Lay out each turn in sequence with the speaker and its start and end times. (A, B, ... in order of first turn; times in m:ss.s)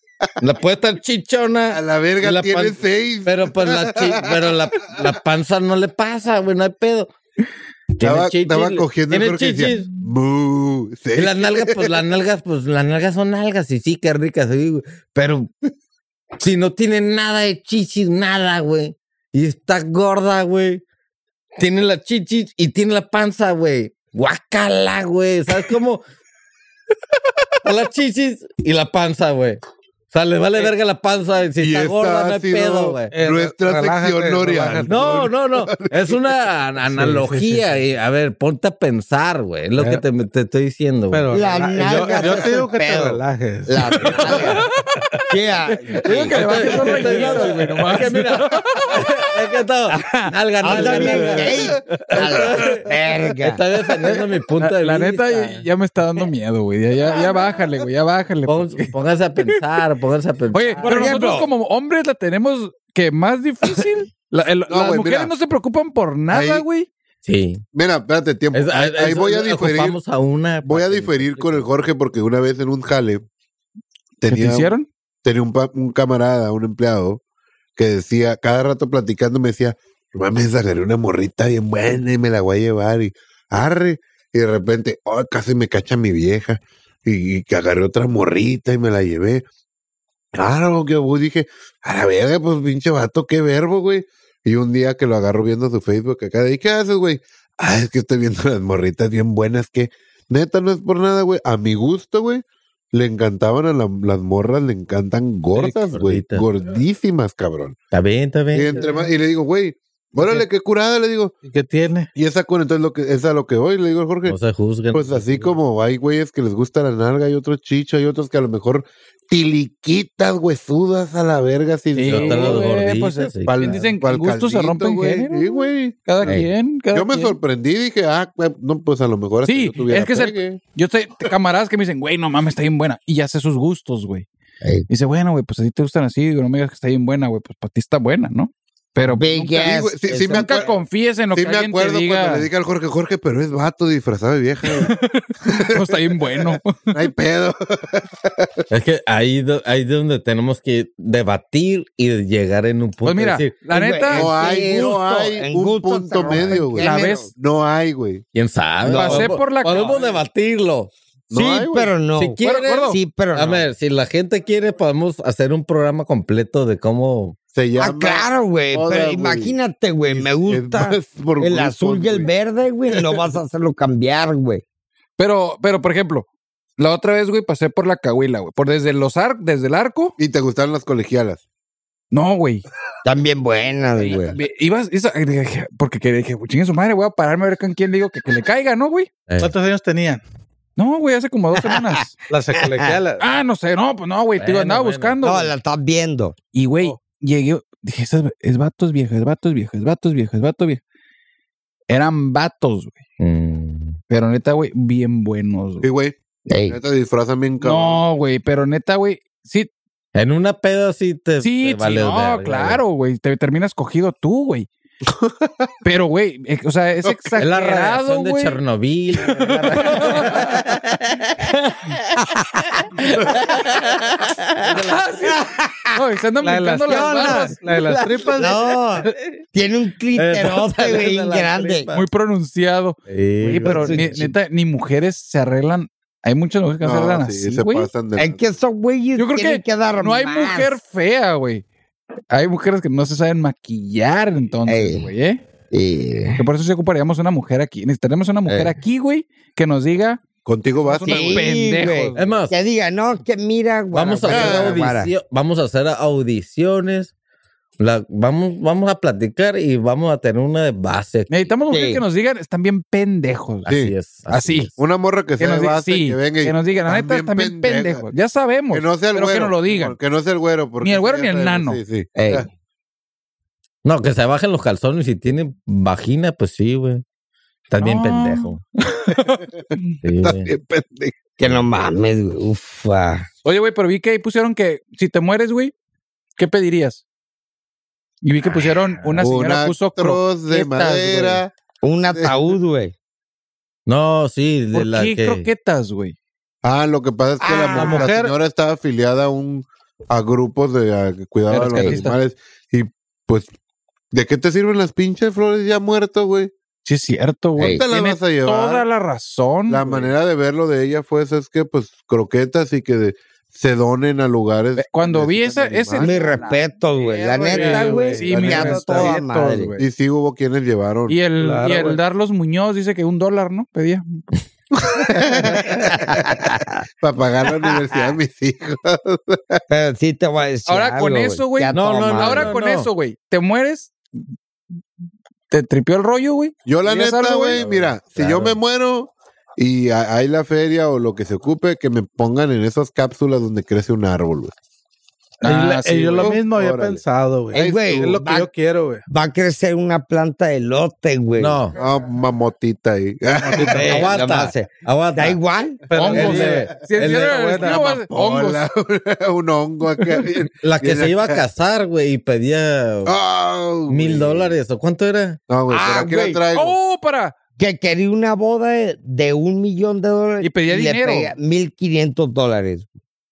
0:00.4-0:07.1 A
0:01.7-0:04.9 B
0:08.0-0:09.9 A
0:08.0-0:11.9 B
0:11.2-0:15.5 A
0:16.4-0:20.8 A
0:21.6-0:26.0 A
0:27.6-0:29.6 A
0:30.1-0:33.1 A
0:31.6-0:36.2 B
0:33.1-0:35.3 C
0:34.9-0:41.3 A
0:36.9-0:37.7 C
0:39.8-0:40.0 C
0:41.1-0:44.6 C
0:41.3-0:44.6 D
0:44.4-0:45.2 E
0:45.3-0:47.4 D
0:45.9-0:52.9 A
0:46.2-0:49.1 E
0:47.0-0:48.1 C
0:49.9-0:53.6 D
0:50.7-0:51.4 C
0:53.4-0:55.6 A
0:54.0-0:59.6 E
0:58.4-1:01.4 A
1:00.5-1:06.9 E
1:00.8-1:01.5 D
1:04.7-1:05.3 B
1:06.3-1:06.6 B
1:07.2-1:07.6 A
1:07.7-1:10.0 B
1:08.5-1:11.7 A
1:10.6-1:13.2 B
1:14.2-1:14.7 B
1:14.3-1:14.9 E
1:15.2-1:17.2 B
1:17.8-1:29.4 B
1:30.4-1:47.8 B
1:45.6-1:46.4 A
1:47.9-1:48.9 A
1:48.5-1:51.4 B
1:48.8-1:49.0 C
1:50.2-1:50.4 C
1:51.4-1:52.1 C
1:52.2-1:54.4 B
1:54.2-1:55.6 A
1:54.9-2:02.7 B
2:01.9-2:07.4 E
2:02.1-2:03.8 A
2:03.4-2:10.6 B
2:06.2-2:06.5 D
2:09.4-2:14.3 E
2:14.6-2:14.9 D
2:14.9-2:19.7 E
2:19.0-2:20.7 D
2:19.6-2:20.8 B
2:20.3-2:22.5 E
2:21.3-2:24.9 B
2:24.6-2:27.0 E
2:25.4-2:28.5 B
2:28.7-2:33.5 A
2:33.0-2:34.3 E
2:33.7-2:37.3 D
2:34.1-2:38.2 B
2:36.8-2:37.3 E
2:38.3-2:40.9 A
2:38.9-2:39.2 D
2:38.9-2:40.0 E
2:41.3-2:41.9 B
2:41.3-2:43.6 D
2:42.2-2:47.4 A
2:42.4-2:43.0 E
2:47.5-2:49.6 B
2:47.8-2:54.6 D
2:50.1-2:52.3 B
2:52.9-2:53.2 B
2:55.2-2:56.3 E
2:56.8-3:00.2 E
3:00.2-3:01.4 B
3:02.1-3:02.6 E
3:03.0-3:04.4 D
3:04.3-3:09.1 E
3:09.4-3:10.2 C
3:10.8-3:12.2 E
3:11.6-3:12.0 D
3:12.3-3:13.2 C
3:12.6-3:12.9 D
3:13.2-3:15.5 E
3:14.4-3:15.2 A
3:15.2-3:16.4 D
3:16.5-3:20.8 E
3:21.9-3:23.0 E
3:23.2-3:24.0 A
3:24.1-3:25.9 E
3:25.8-3:26.2 B
3:26.5-3:26.8 D
3:26.7-3:28.0 B
3:27.6-3:29.7 E
3:30.2-3:32.8 A
3:31.4-3:34.7 E
3:35.2-3:35.7 B
3:35.8-3:38.6 E
3:37.0-3:37.4 B
3:37.4-3:44.9 A
3:39.2-3:40.6 E
3:42.2-3:42.6 D
3:44.6-3:47.6 E
3:45.2-3:46.0 D
3:46.4-3:48.8 C
3:46.9-3:47.6 D
3:47.7-3:48.1 A
3:48.4-3:51.9 D
3:50.2-3:52.1 A
3:51.9-3:57.9 E
3:53.1-3:54.2 A
3:53.6-3:54.3 D
3:56.8-3:58.4 B
3:58.2-4:00.8 D
3:59.2-4:01.6 E
4:02.3-4:05.4 E
4:04.6-4:05.1 D
4:05.7-4:06.4 D
4:06.4-4:10.2 E
4:08.5-4:08.7 D
4:10.4-4:11.4 B
4:10.8-4:12.4 E
4:11.1-4:15.1 D
4:12.2-4:12.5 A
4:13.9-4:17.1 A
4:14.3-4:14.8 B
4:17.8-4:21.5 A
4:21.3-4:23.7 E
4:21.7-4:22.0 D
4:23.6-4:24.7 A
4:23.7-4:23.9 B
4:24.3-4:24.7 E
4:24.8-4:28.1 B
4:25.4-4:30.0 E
4:28.7-4:32.5 B
4:30.8-4:31.8 E
4:32.2-4:32.5 D
4:33.8-4:37.0 A
4:37.7-4:38.6 A
4:37.8-4:40.0 E
4:40.0-4:40.5 A
4:40.2-4:41.2 B
4:41.4-4:43.3 D
4:43.4-4:45.7 E
4:46.4-4:47.0 E
4:48.2-4:51.4 E
4:48.4-4:49.3 A
4:49.2-4:51.5 B
4:51.8-4:52.9 D
4:52.2-4:52.6 B
4:53.9-4:55.5 A
4:54.7-4:56.2 E
4:56.6-5:03.5 B
4:57.4-4:58.1 D
4:57.7-4:58.3 C
5:01.5-5:02.2 E
5:01.7-5:02.0 D
5:04.1-5:06.5 B
5:06.8-5:10.1 E
5:07.6-5:07.8 D
5:07.7-5:08.9 B
5:09.7-5:16.4 B
5:14.8-5:19.9 E
5:16.0-5:19.7 D
5:17.4-5:19.2 C
5:19.8-5:21.2 B
5:21.1-5:24.2 E
5:21.4-5:22.0 C
5:24.8-5:29.6 B
5:25.6-5:26.8 D
5:27.6-5:28.1 D
5:29.7-5:32.5 D
5:30.7-5:34.0 E
5:31.7-5:32.9 A
5:35.5-5:37.6 E
5:36.6-5:44.5 B
5:37.6-5:38.6 A
5:45.4-5:46.4 E
5:45.4-5:49.0 C
5:46.2-5:47.0 B
5:47.5-5:48.5 D
5:47.5-5:48.1 B
5:49.1-5:51.6 D
5:51.4-5:51.8 A
5:51.8-5:53.9 B
5:53.4-5:54.0 C
5:53.7-5:55.8 D
5:53.8-5:55.4 A
5:55.9-5:57.8 C
5:55.9-5:58.6 E
5:56.1-5:57.4 A
5:56.1-5:56.9 B
5:57.6-6:01.4 B
6:00.6-6:03.2 A
6:03.0-6:04.6 B
6:03.9-6:05.4 A
6:05.5-6:06.8 B
6:05.7-6:06.4 D
6:06.5-6:07.4 E
6:07.6-6:12.9 D
6:10.4-6:11.3 E